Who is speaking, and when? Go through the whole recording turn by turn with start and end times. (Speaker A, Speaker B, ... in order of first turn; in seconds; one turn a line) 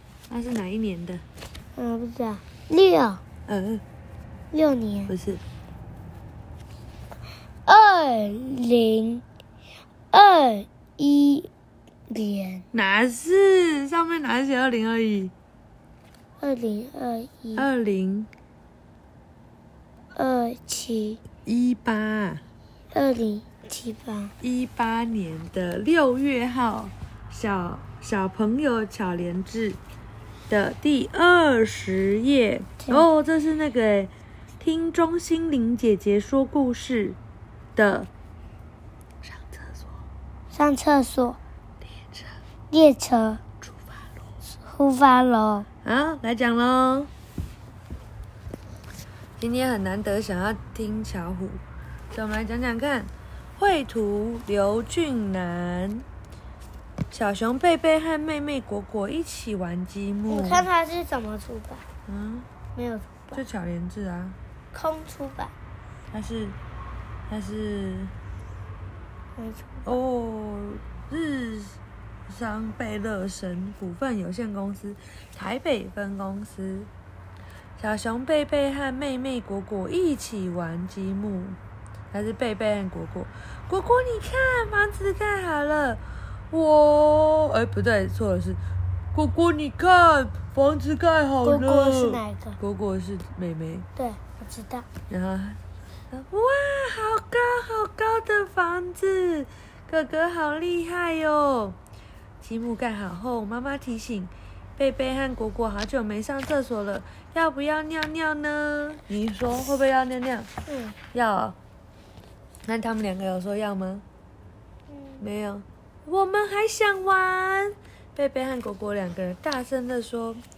Speaker A: 0.3-1.2
Speaker B: 1.7-3.2
Speaker A: 3.5-3.8
Speaker B: 4.5-5.1
Speaker A: 5.1-5.4
Speaker B: 7.7-9.2
Speaker B: 10.1-11.5
Speaker B: 12.1-12.7
Speaker A: 12.7-15.3
Speaker B: 16.4-17.7
Speaker A: 17.6-18.3
Speaker B: 20.1-21.2
Speaker A: 21.4-22.4
Speaker B: 22.9-24.3
Speaker A: 24.4-29.8
Speaker A: 30.5-37.2
Speaker A: 37.8-38.1
Speaker A: 39.2-40.0
Speaker B: 40.5-41.4
Speaker A: 41.9-42.4
Speaker B: 42.7-43.4
Speaker A: 43.6-44.1
Speaker B: 44.5-45.7
Speaker A: 45.8-47.1
Speaker A: 49.4-56.0
Speaker A: 57.1-60.7
Speaker B: 60.3-61.8
Speaker A: 62.1-62.5
Speaker B: 62.7-63.4
Speaker A: 63.3-64.4
Speaker B: 64.7-65.5
Speaker A: 66.1-66.6
Speaker A: 67.3-68.1
Speaker B: 69.3-69.9
Speaker A: 69.8-76.9
Speaker A: 77.8-81.6
Speaker A: 82.1-88.6
Speaker A: 89.1-93.8
Speaker B: 91.4-92.6
Speaker B: 94.0-94.9
Speaker A: 95.1-101.8
Speaker A: 102.4-110.5
Speaker B: 110.7-111.0
Speaker A: 111.1-111.6
Speaker A: 112.7-114.0
Speaker B: 114.9-115.2
Speaker A: 115.2-120.4